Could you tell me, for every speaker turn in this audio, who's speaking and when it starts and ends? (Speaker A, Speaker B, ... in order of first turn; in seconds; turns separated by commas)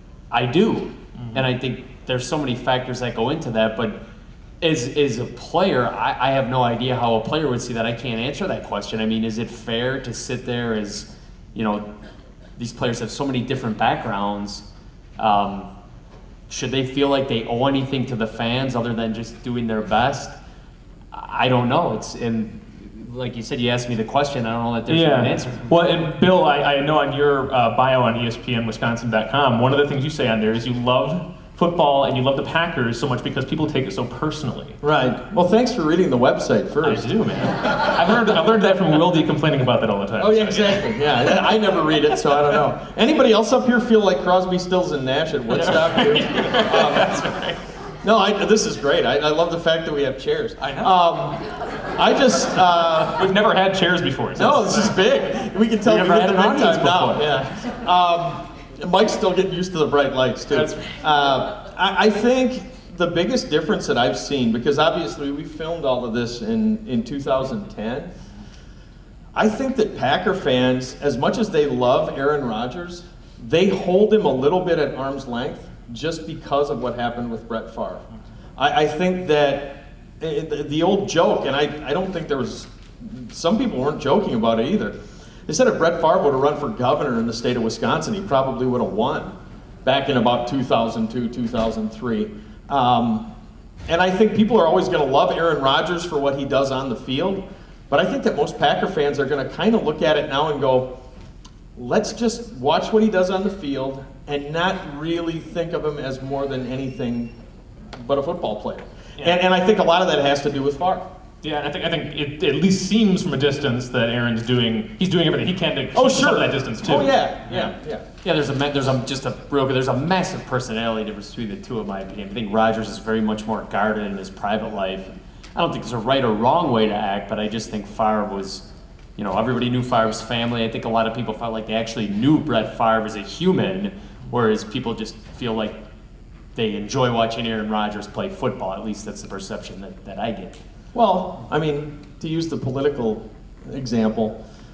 Speaker A: 0.3-4.0, Speaker B: 1.2-1.5, Speaker A: 4.6-11.9, Speaker A: 12.6-14.7, Speaker A: 15.2-15.7, Speaker A: 16.5-20.4, Speaker A: 21.1-25.7, Speaker B: 24.9-34.8, Speaker C: 34.8-37.5, Speaker B: 36.8-41.3, Speaker C: 40.2-47.2, Speaker B: 45.5-47.6, Speaker C: 48.0-51.4, Speaker B: 50.6-50.9, Speaker C: 52.0-53.3, Speaker B: 53.0-55.0, Speaker C: 54.4-68.1, Speaker A: 55.8-57.3, Speaker B: 60.5-61.0, Speaker C: 69.3-78.0, Speaker C: 78.6-93.3, Speaker C: 93.9-100.9, Speaker C: 101.8-107.3, Speaker C: 107.9-111.1, Speaker B: 111.4-117.7, Speaker C: 115.9-118.0, Speaker A: 118.2-128.7, Speaker A: 129.2-135.8, Speaker A: 136.6-140.6, Speaker C: 140.9-144.4